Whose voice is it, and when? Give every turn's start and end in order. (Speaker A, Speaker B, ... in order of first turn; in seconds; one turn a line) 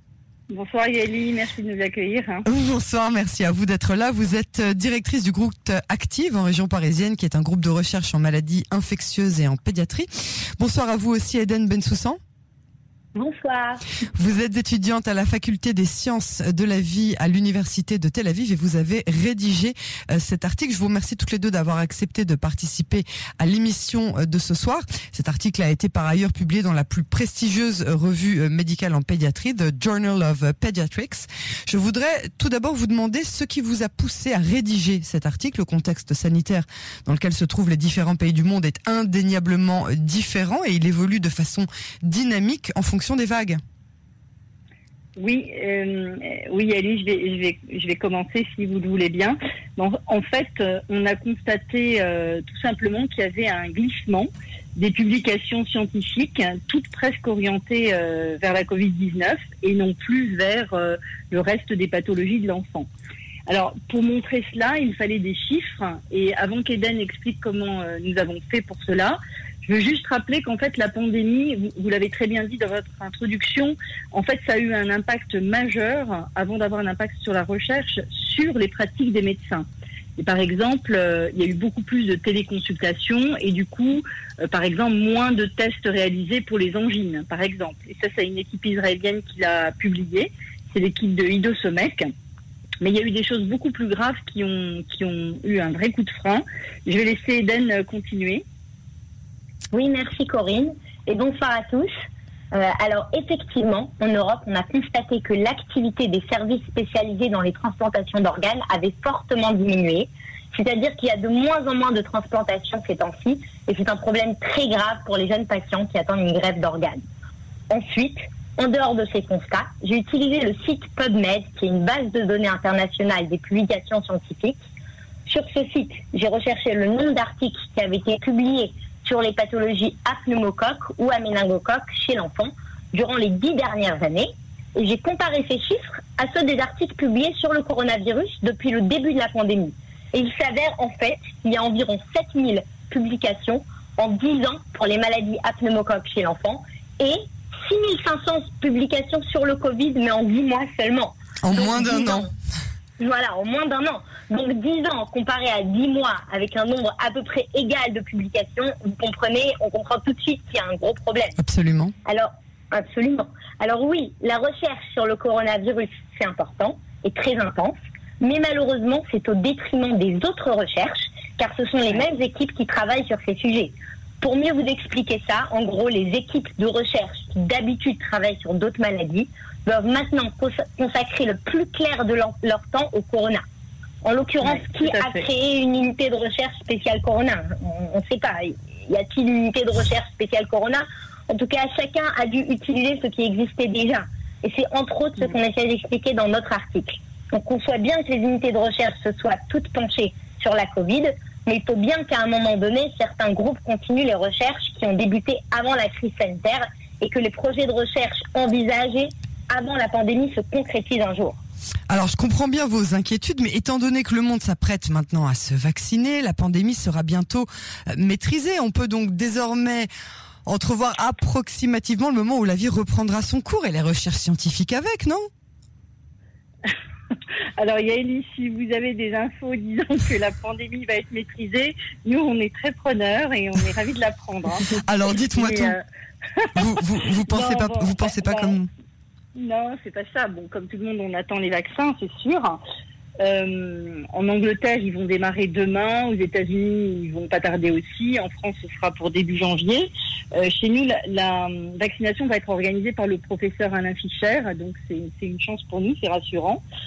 Speaker A: 0.5-2.4
Speaker B: 2.4-12.2
Speaker C: 13.1-13.8
Speaker B: 14.1-43.6
Speaker A: 45.2-62.9
Speaker A: 63.5-79.7
Speaker A: 80.2-92.1
Speaker A: 92.8-98.4
Speaker C: 99.7-101.9
Speaker C: 102.5-117.0
Speaker C: 117.7-124.6
Speaker C: 125.2-152.3
Speaker B: 151.4-152.3
Speaker C: 153.0-161.4
Speaker B: 161.4-161.9
Speaker C: 162.0-183.4
Speaker C: 184.0-211.4
Speaker A: 184.4-185.2
Speaker B: 211.9-219.9
Speaker B: 220.4-225.3
Speaker A: 227.6-234.8
Speaker B: 234.7-235.8
Speaker A: 235.3-235.8
Speaker B: 236.5-238.7
Speaker A: 237.3-238.6
Speaker A: 239.3-242.6
Speaker A: 243.2-256.6